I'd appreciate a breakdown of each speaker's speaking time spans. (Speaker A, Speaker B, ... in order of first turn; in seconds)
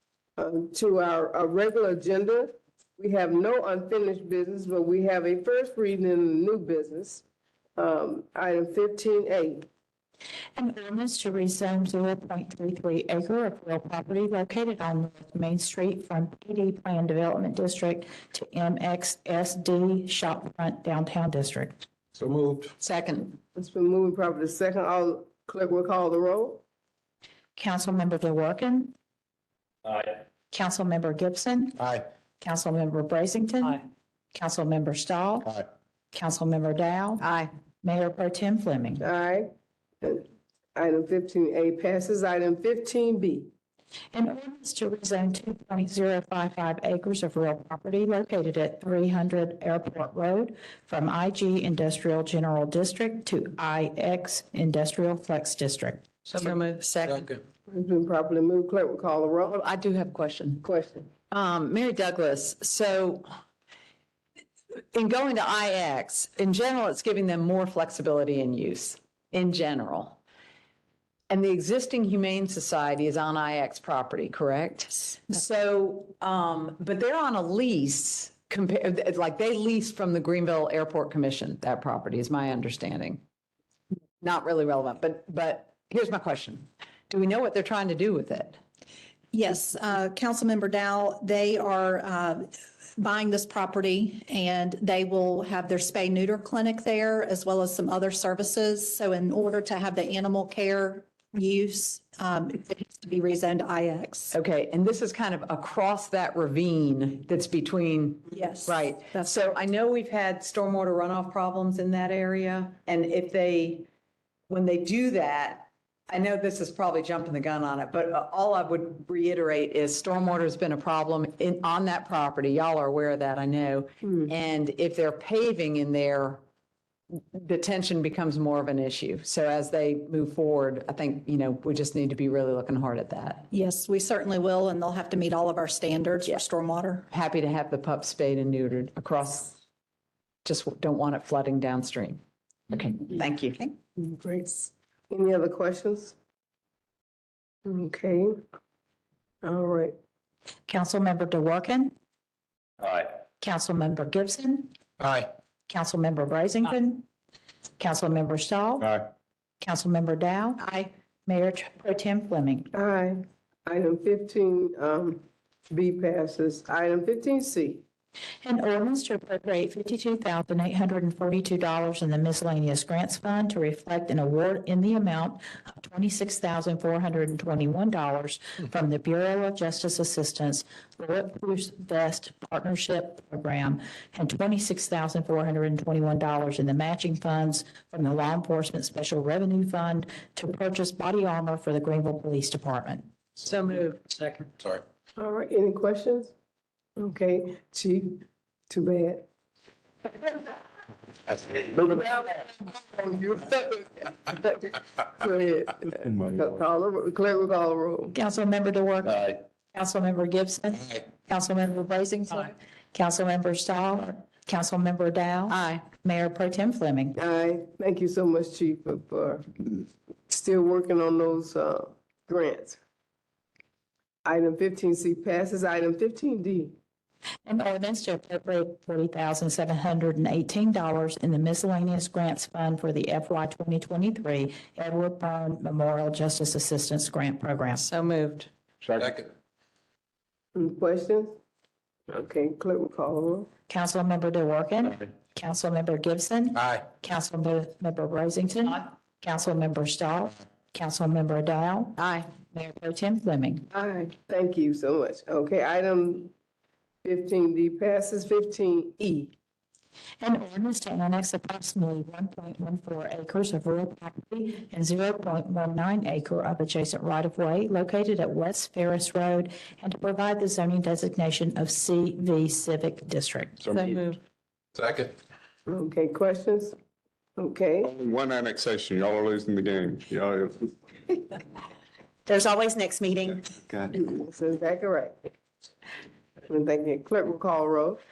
Speaker A: 0.4-7.2, 7.8-9.7, 23.6-26.6, 39.0-39.5, 40.0-43.5, 57.7-59.6, 60.6-61.1, 144.0-146.2, 147.7-148.4, 149.4-149.9, 162.7-167.8, 195.2-196.3, 197.0-199.3, 200.1-200.6, 201.3-208.2, 217.2-222.8, 224.2-226.7, 240.6-241.3, 242.1-243.5, 253.7-256.3, 257.0-259.3, 275.7-276.8, 277.4-277.9, 283.9-285.1, 286.5-288.0
Speaker B: 10.6-21.8, 27.6-28.9, 30.5-31.8, 32.4-35.6, 36.1-37.2, 37.8-39.0, 44.1-56.1, 150.7-151.9, 153.4-154.7, 155.7-157.1, 157.8-159.0, 159.6-160.7, 161.3-162.7, 168.4-193.1, 208.1-217.2, 227.5-237.9, 243.7-252.0, 252.5-253.7, 260.2-273.6
Speaker C: 22.2-22.7, 57.0-57.4, 155.0-155.3, 239.0-239.3, 246.6-246.8, 274.8-275.1
Speaker D: 22.8-23.4, 37.2-37.5, 56.3-57.3, 59.5-60.6, 61.3-63.3, 64.9-70.2, 71.3-83.2, 84.2-88.6, 104.3-113.9, 114.5-126.4, 127.3-133.5, 137.1-139.6, 140.4-143.6, 193.4-194.5, 215.5-215.8, 237.8-238.5, 252.0-252.3, 273.7-274.2
Speaker E: 89.3-104.3, 108.3-109.3, 133.5-137.1, 282.3-283.4
Speaker F: 206.1-206.6, 238.8-239.1, 273.6-274.1, 277.8-280.7, 283.5-283.9